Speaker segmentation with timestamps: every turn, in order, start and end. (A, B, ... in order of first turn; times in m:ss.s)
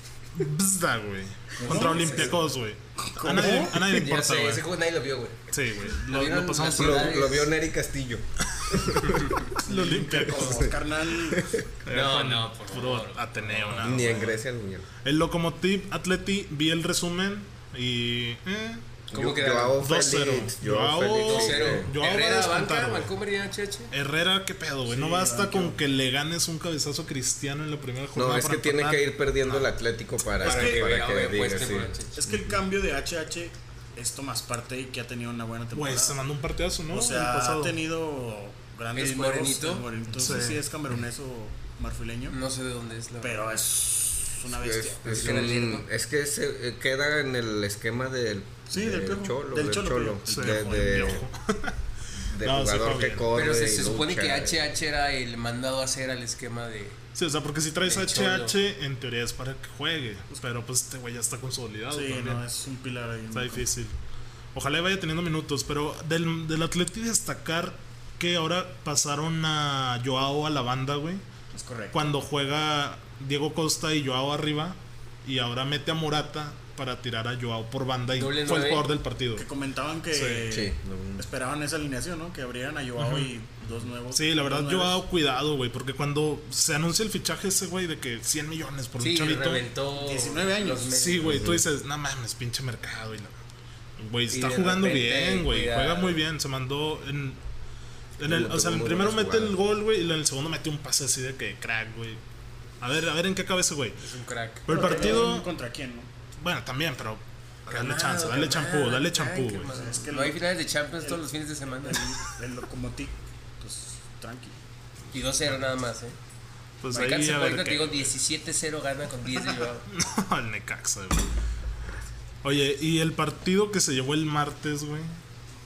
0:00.3-0:04.6 A
0:01.6-0:02.4 B
0:01.6-0:02.4 C
0:03.0-0:03.8 C
0:03.8-0:07.5 B
0:05.5-0:07.2 A
0:06.6-0:09.4 D
0:09.1-0:09.4 B
0:09.6-0:10.7 A
0:09.6-0:11.5 C
0:10.3-0:11.6 D
0:11.8-0:14.4 A
0:11.9-0:13.9 B
0:13.8-0:14.9 D
0:15.0-0:18.8 A
0:19.1-0:21.9 D
0:19.1-0:19.8 B
0:19.8-0:23.1 A
0:21.2-0:23.9 B
0:23.9-0:29.7 A
0:24.9-0:25.8 C
0:28.2-0:32.0 D
0:30.4-0:32.2 B
0:30.4-0:30.9 C
0:32.2-0:36.2 C
0:35.7-0:37.8 A
0:36.9-0:42.4 C
0:38.9-0:39.9 B
0:40.2-0:40.6 A
0:42.3-0:43.4 B
0:43.2-0:45.8 C
0:44.6-0:51.2 D
0:45.0-0:45.9 B
0:48.7-0:51.2 C
0:50.3-0:51.8 A
0:52.1-0:54.7 D
0:52.4-0:53.3 A
0:53.3-0:57.0 B
0:57.2-1:02.4 A
0:57.8-0:58.5 B
1:01.9-1:03.7 C
1:03.3-1:03.9 A
1:04.5-1:11.2 A
1:11.5-1:12.1 C
1:11.9-1:19.5 A
1:18.1-1:18.9 B
1:19.4-1:25.0 C
1:20.1-1:20.5 A
1:20.5-1:21.2 D
1:23.0-1:23.3 A
1:24.1-1:29.7 A
1:29.0-1:31.5 B
1:30.0-1:31.1 C
1:30.9-1:33.3 A
1:31.2-1:31.6 D
1:34.0-1:37.4 A
1:34.3-1:36.2 B
1:38.2-1:39.6 D
1:38.2-1:42.2 A
1:42.8-1:44.0 A
1:44.0-1:45.2 B
1:44.7-1:45.5 A
1:44.7-1:46.1 C
1:46.4-1:49.7 A
1:47.7-1:52.1 B
1:49.7-1:50.5 C
1:51.8-1:54.6 C
1:55.1-1:56.2 B
1:56.8-1:58.1 A
1:56.9-1:59.9 B
1:59.9-2:01.3 A
2:02.4-2:05.1 A